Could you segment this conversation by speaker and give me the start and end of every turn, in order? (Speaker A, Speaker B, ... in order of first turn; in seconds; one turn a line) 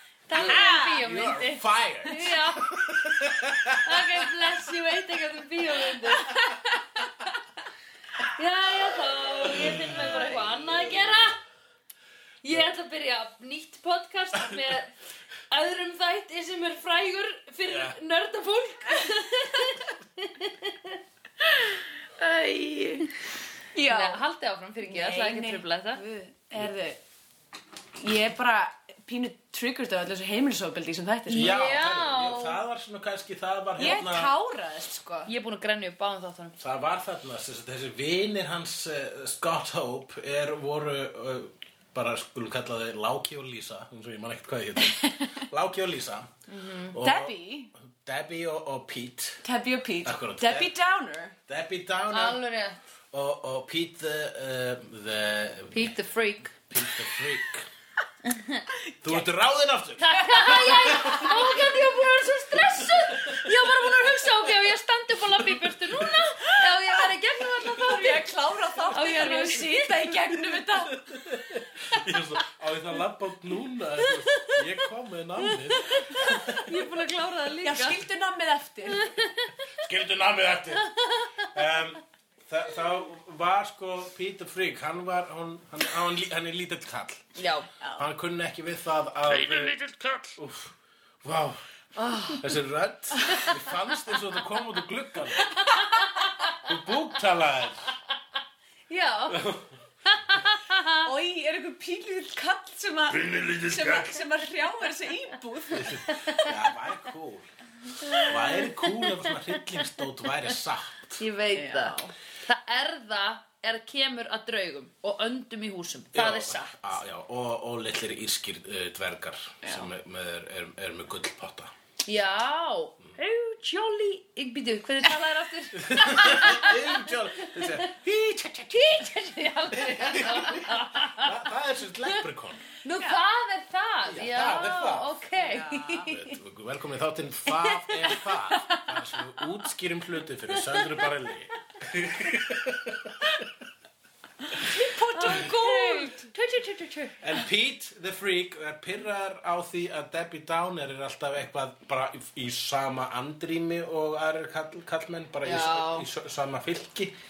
Speaker A: 0.3-2.9
Speaker B: 0.3-1.0
Speaker C: 0.3-4.3
Speaker A: 3.7-6.4
Speaker B: 6.2-6.8
Speaker A: 8.2-11.4
Speaker C: 9.5-10.2
Speaker A: 12.4-14.9
Speaker A: 15.5-21.0
Speaker C: 17.7-18.0
Speaker B: 21.5-23.1
Speaker B: 23.7-24.2
Speaker A: 23.9-26.0
Speaker B: 24.8-27.0
Speaker B: 28.0-31.6
Speaker A: 31.3-32.6
Speaker C: 31.3-34.3
Speaker B: 33.8-35.3
Speaker A: 35.3-36.6
Speaker C: 36.6-46.3
Speaker B: 45.0-45.3
Speaker A: 46.5-47.0
Speaker C: 46.9-49.4
Speaker B: 47.0-47.7
Speaker B: 49.4-51.4
Speaker C: 50.0-50.7
Speaker C: 51.5-52.4
Speaker A: 52.1-52.8
Speaker C: 53.1-56.0
Speaker A: 55.7-56.6
Speaker C: 56.7-57.7
Speaker A: 58.2-58.7
Speaker B: 58.9-59.2
Speaker C: 59.0-61.5
Speaker A: 60.0-68.3
Speaker B: 60.3-61.3
Speaker C: 62.5-64.1
Speaker C: 65.4-66.2
Speaker B: 67.7-71.1
Speaker A: 68.9-70.1
Speaker C: 70.5-76.7
Speaker A: 75.8-78.0
Speaker B: 77.6-79.1
Speaker A: 78.9-79.6
Speaker C: 79.8-80.9
Speaker A: 80.8-81.5
Speaker C: 81.4-87.4
Speaker A: 87.4-87.7
Speaker C: 88.0-91.6
Speaker A: 92.0-92.4
Speaker C: 92.4-95.5
Speaker A: 95.6-96.7
Speaker C: 96.6-97.9
Speaker A: 98.9-99.5
Speaker C: 99.3-99.7
Speaker A: 100.1-101.1
Speaker B: 101.0-106.4
Speaker C: 103.1-104.2
Speaker C: 105.7-107.5
Speaker A: 106.1-106.5
Speaker A: 108.0-109.8
Speaker C: 108.2-111.2
Speaker A: 111.2-116.8
Speaker B: 111.5-112.1
Speaker C: 116.1-121.7
Speaker B: 119.6-119.9
Speaker A: 122.1-127.9
Speaker C: 125.8-129.0
Speaker A: 128.7-131.3
Speaker C: 129.7-132.6
Speaker A: 132.8-136.3
Speaker C: 134.1-135.1
Speaker B: 135.3-136.1
Speaker C: 136.1-143.5
Speaker A: 137.5-138.3
Speaker A: 140.7-141.0
Speaker B: 144.6-146.3
Speaker A: 145.1-147.2
Speaker C: 147.2-157.1
Speaker A: 155.4-156.1